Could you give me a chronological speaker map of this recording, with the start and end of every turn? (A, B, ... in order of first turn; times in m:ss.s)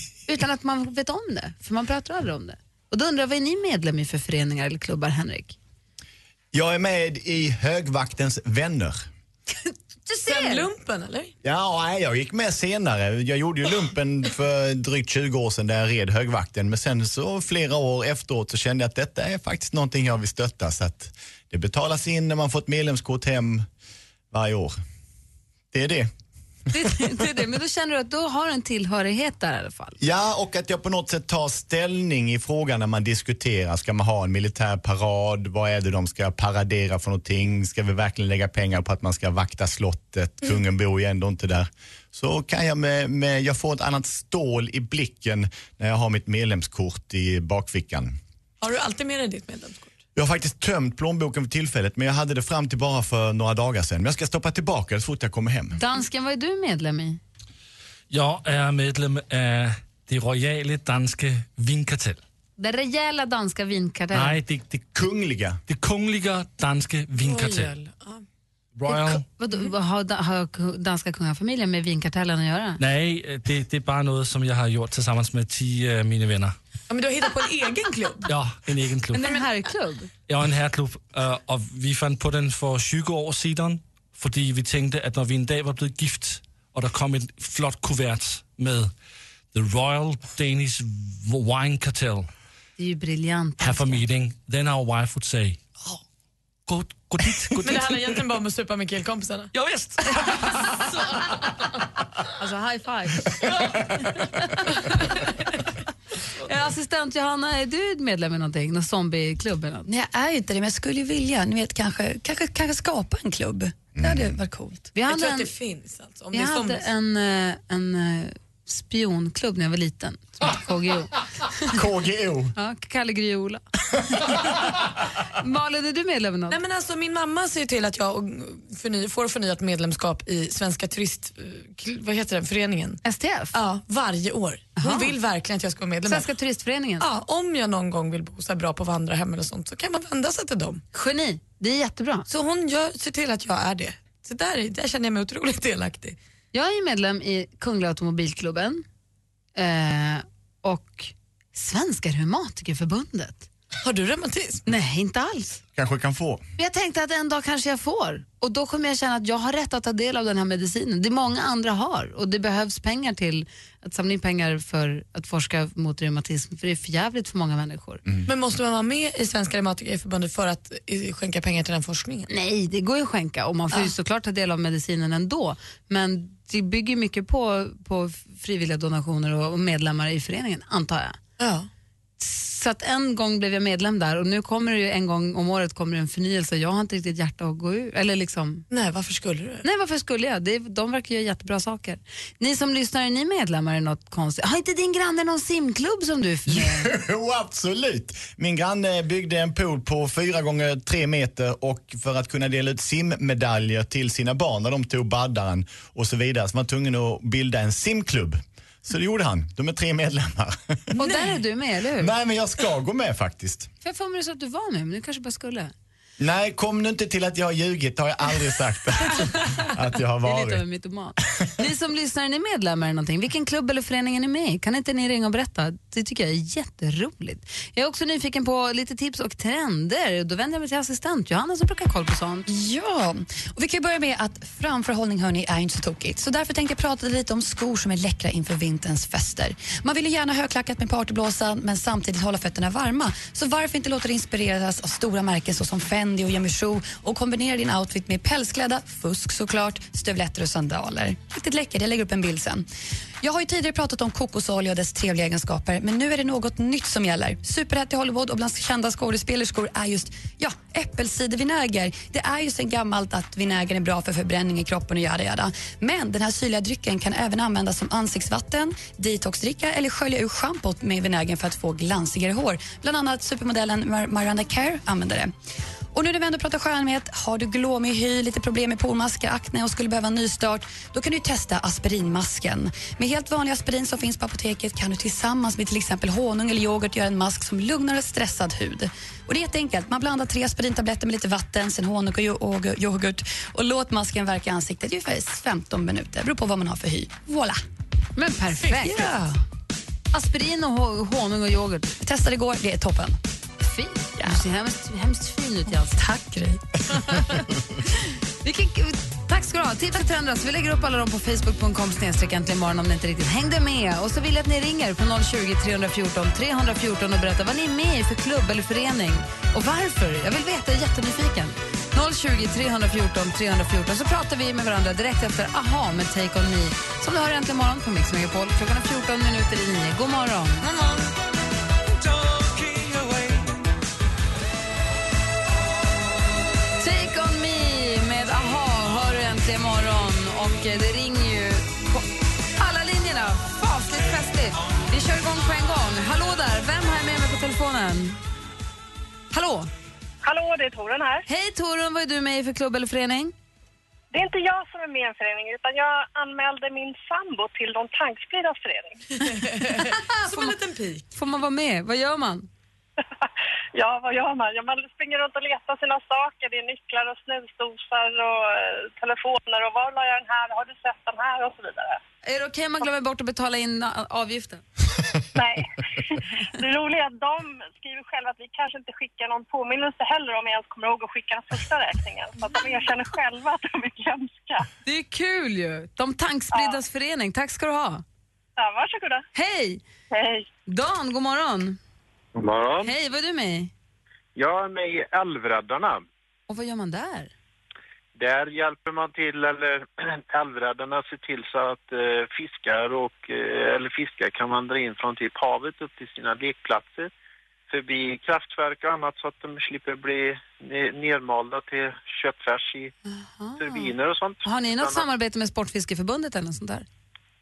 0:00.3-0:05.6 A
0:06.5-0:09.1 B
0:10.1-0:10.7 A
0:10.3-0:11.3 C
0:11.4-0:23.7 B
0:24.3-0:24.8 B
0:25.7-0:26.1 B
0:26.7-0:30.0 A
0:30.0-0:48.2 B
0:48.6-0:49.9 C
0:50.2-0:55.8 B
0:55.8-0:57.2 A
0:58.1-1:02.2 D
1:02.6-1:04.4 A
1:04.1-1:04.9 D
1:04.9-1:05.6 B
1:05.7-1:07.7 D
1:07.2-1:08.2 C
1:08.8-1:09.2 D
1:08.9-1:12.8 A
1:12.8-1:16.6 D
1:16.9-1:18.3 C
1:18.3-1:19.3 D
1:19.1-1:20.1 A
1:20.3-1:28.9 D
1:29.5-1:32.3 D
1:32.8-1:34.0 A
1:33.6-1:35.6 D
1:36.7-1:38.0 D
1:37.6-1:39.5 C
1:39.5-1:40.5 D
1:42.4-1:45.2 A
1:46.4-1:49.9 A
1:49.9-1:54.9 E
1:54.0-1:54.4 B
1:54.9-1:55.5 A
1:55.1-1:56.9 C
1:56.3-2:01.7 A
2:01.7-2:02.5 B
2:02.6-2:03.6 A
2:05.4-2:06.6 A
2:06.5-2:13.0 C
2:13.0-2:13.6 A
2:13.5-2:16.3 C
2:14.8-2:15.1 A
2:16.1-2:17.1 A
2:17.0-2:20.8 C
2:20.9-2:22.3 A
2:22.3-2:26.2 C
2:26.5-2:28.8 A
2:29.6-2:33.5 A
2:33.8-2:34.6 C
2:34.7-2:35.6 A
2:35.8-2:36.4 B
2:36.6-2:48.0 A
2:48.3-2:52.3 C
2:52.3-3:01.2 A
3:01.4-3:01.7 C
3:02.2-3:08.7 A
3:08.7-3:09.6 C
3:09.6-3:16.9 A
3:16.5-3:30.8 B
3:31.0-3:32.1 A
3:31.0-3:31.3 C
3:32.0-3:33.7 B
3:33.8-3:35.7 A
3:36.2-3:40.6 B
3:40.2-3:52.5 A
3:52.5-4:12.7 E
4:13.2-4:35.3 E
4:35.9-4:57.6 E
4:58.2-4:59.2 A
4:58.6-4:59.4 C
5:00.1-5:01.9 A
5:02.0-5:03.2 E
5:03.6-5:06.0 A
5:06.0-5:06.6 E
5:06.9-5:30.6 A
5:30.6-5:31.1 C
5:36.8-5:48.2 A
5:49.3-5:49.7 A
5:50.2-5:51.2 F
5:51.3-5:53.3 A
5:54.1-5:59.0 F
5:59.2-6:01.0 C
5:59.8-6:00.6 A
6:01.1-6:02.5 A
6:03.8-6:12.0 F
6:12.2-6:14.6 A
6:15.4-6:24.7 F
6:24.8-6:28.0 A
6:26.5-6:26.8 F
6:28.6-6:29.2 F
6:29.3-6:29.8 A
6:30.1-6:30.5 F
6:30.7-6:31.8 A
6:32.4-6:32.9 G
6:32.8-6:33.7 A
6:34.4-6:36.0 G
6:36.5-6:37.3 A
6:38.2-6:47.1 G
6:47.7-6:52.9 G
6:53.1-6:56.9 A
6:53.6-6:55.1 G